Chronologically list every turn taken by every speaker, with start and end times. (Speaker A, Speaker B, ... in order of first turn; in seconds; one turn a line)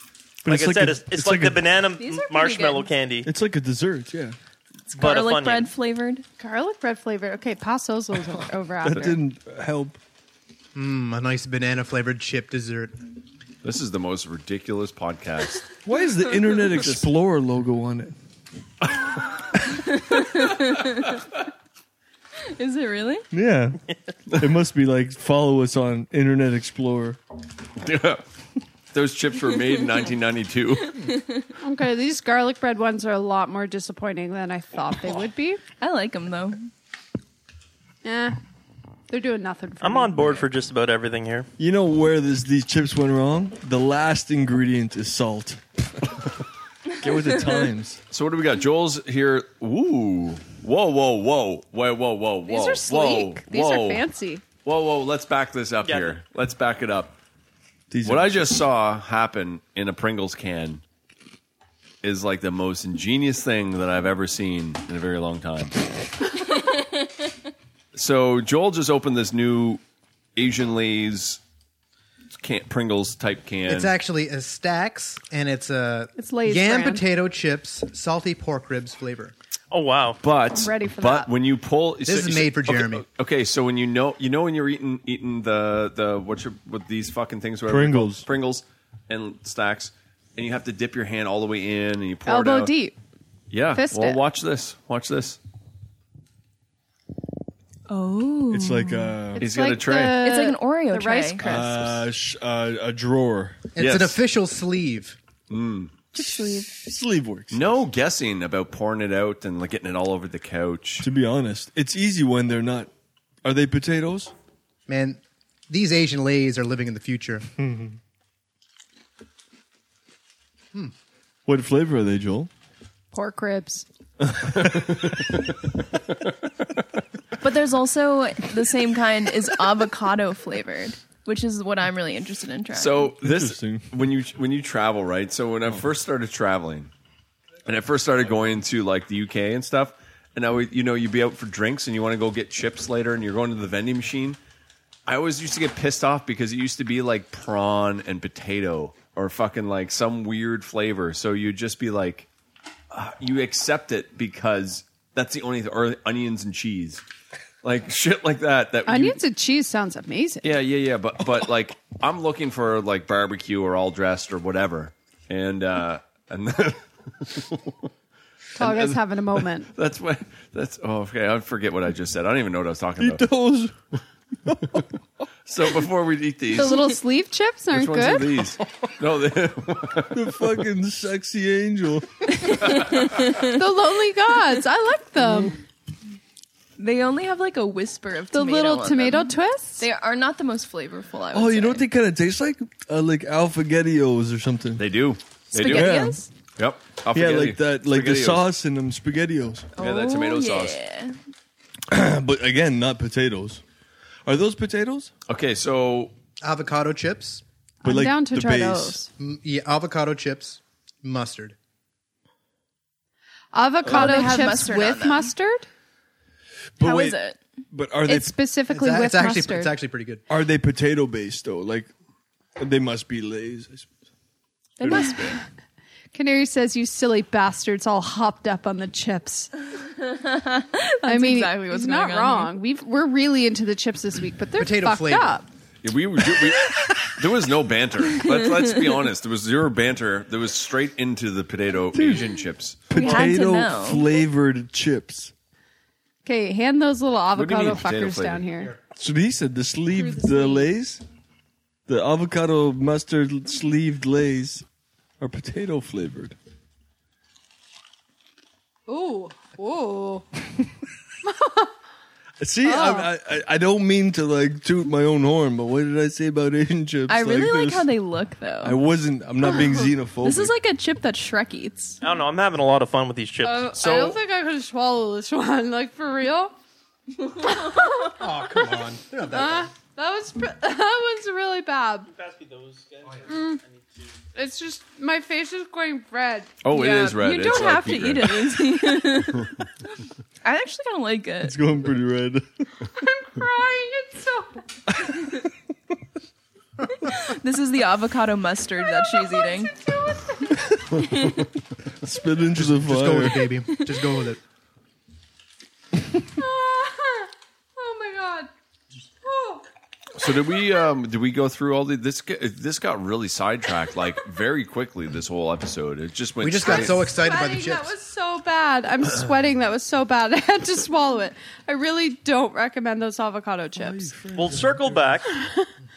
Speaker A: 0.4-1.6
Speaker B: 0.5-3.3
Speaker C: 2.0-2.9
Speaker A: 3.2-4.3
Speaker C: 4.9-6.2
Speaker B: 4.9-5.7
Speaker D: 6.4-9.2
Speaker A: 8.8-10.0
Speaker E: 10.7-12.9
Speaker F: 13.6-15.7
Speaker A: 15.8-18.1
Speaker F: 16.7-17.1
Speaker C: 19.8-21.1
Speaker C: 22.5-23.2
Speaker A: 23.3-23.8
Speaker A: 24.3-27.2
Speaker F: 27.8-28.2
Speaker F: 28.9-31.1
Speaker C: 30.9-31.5
Speaker D: 31.6-35.6
Speaker C: 35.8-36.7
Speaker D: 38.0-38.4
Speaker D: 39.1-40.4
Speaker B: 39.8-41.5
Speaker A: 41.6-46.2
Speaker A: 47.0-48.0
Speaker F: 48.1-54.0
Speaker D: 52.5-54.4
Speaker F: 54.6-57.2
Speaker B: 55.8-56.1
Speaker A: 57.9-58.6
Speaker F: 58.0-60.8
Speaker F: 62.0-65.8
Speaker F: 67.9-69.8
Speaker F: 70.3-71.4
Speaker F: 72.3-73.9
Speaker E: 73.7-79.3
Speaker D: 76.2-77.0
Speaker B: 79.7-80.2
Speaker F: 80.2-92.7
Speaker D: 80.5-81.3
Speaker E: 82.0-83.0
Speaker A: 87.7-88.3
Speaker D: 92.2-92.9
Speaker F: 93.5-95.4
Speaker D: 93.7-94.2
Speaker C: 97.9-99.2
Speaker A: 98.5-99.5
Speaker D: 99.3-101.7
Speaker F: 99.4-100.2
Speaker C: 100.1-102.0
Speaker A: 101.4-103.7
Speaker E: 103.8-105.2
Speaker F: 103.8-104.2
Speaker F: 105.5-105.9
Speaker C: 106.1-106.7
Speaker A: 106.6-107.8
Speaker F: 107.5-111.1
Speaker A: 111.0-112.9
Speaker A: 113.4-114.3
Speaker E: 114.9-117.5
Speaker A: 117.6-118.0
Speaker A: 121.5-122.5
Speaker D: 123.1-123.8
Speaker A: 124.3-125.2
Speaker F: 124.6-125.1
Speaker C: 127.4-133.1
Speaker F: 132.7-136.9
Speaker A: 133.2-133.9
Speaker F: 137.7-144.4
Speaker F: 145.1-152.3
Speaker F: 152.9-157.0
Speaker F: 157.6-159.2
Speaker D: 158.8-160.5
Speaker F: 160.4-167.9
Speaker F: 168.5-173.2
Speaker D: 168.6-169.7
Speaker A: 173.0-173.8
Speaker A: 174.4-174.8
Speaker F: 175.5-176.8
Speaker D: 176.5-178.4
Speaker F: 177.7-180.3
Speaker A: 180.1-182.4
Speaker C: 182.4-183.6
Speaker D: 183.4-185.6
Speaker C: 186.8-191.8
Speaker D: 188.3-189.8
Speaker A: 191.3-194.8
Speaker F: 194.8-196.0
Speaker C: 195.5-196.3
Speaker A: 195.6-196.2
Speaker F: 196.6-198.4
Speaker A: 197.1-199.7
Speaker C: 199.8-201.2
Speaker F: 199.8-200.8
Speaker A: 201.9-203.6
Speaker A: 204.2-205.1
Speaker F: 205.3-206.1
Speaker E: 206.4-207.4
Speaker D: 207.8-209.1
Speaker A: 207.8-209.1
Speaker E: 209.2-211.6
Speaker D: 213.5-215.7
Speaker A: 213.8-214.5
Speaker C: 213.9-215.3
Speaker A: 216.8-217.2
Speaker C: 216.8-217.4
Speaker A: 217.7-218.3
Speaker D: 218.0-219.7
Speaker E: 218.7-220.2
Speaker A: 220.3-221.9
Speaker A: 222.6-223.9
Speaker C: 224.8-225.4
Speaker A: 224.8-225.4
Speaker D: 224.9-225.2
Speaker D: 226.1-229.5
Speaker C: 230.0-232.6
Speaker D: 231.0-235.5
Speaker E: 234.6-235.4
Speaker F: 235.8-242.9
Speaker C: 238.2-238.7
Speaker A: 241.9-245.3
Speaker C: 242.9-244.1
Speaker D: 246.2-248.7
Speaker F: 247.3-248.7
Speaker A: 248.9-251.0
Speaker D: 250.0-250.6
Speaker A: 251.9-254.6
Speaker A: 255.2-256.4
Speaker D: 258.9-260.2
Speaker D: 261.2-261.7
Speaker A: 262.4-267.9
Speaker D: 262.6-263.1
Speaker C: 267.1-268.8
Speaker A: 268.6-270.5
Speaker C: 269.4-272.0
Speaker B: 272.0-273.7
Speaker D: 273.4-276.5
Speaker F: 273.7-274.2
Speaker C: 277.2-278.1
Speaker D: 277.4-278.8
Speaker E: 278.2-279.7
Speaker D: 279.3-282.1
Speaker B: 282.1-283.6
Speaker D: 283.3-283.6
Speaker D: 284.3-286.6
Speaker F: 286.6-288.5
Speaker C: 286.7-289.6
Speaker C: 290.4-291.6
Speaker A: 291.4-292.4
Speaker D: 293.0-294.6
Speaker C: 297.0-299.8
Speaker D: 298.8-300.9
Speaker A: 301.0-301.4
Speaker C: 301.0-301.4
Speaker A: 302.0-303.7
Speaker E: 302.5-304.4
Speaker D: 306.2-308.5
Speaker D: 309.2-309.6
Speaker F: 310.1-317.1
Speaker E: 316.4-317.9
Speaker D: 316.6-324.1
Speaker A: 323.8-325.1
Speaker B: 324.3-325.3
Speaker D: 325.4-325.7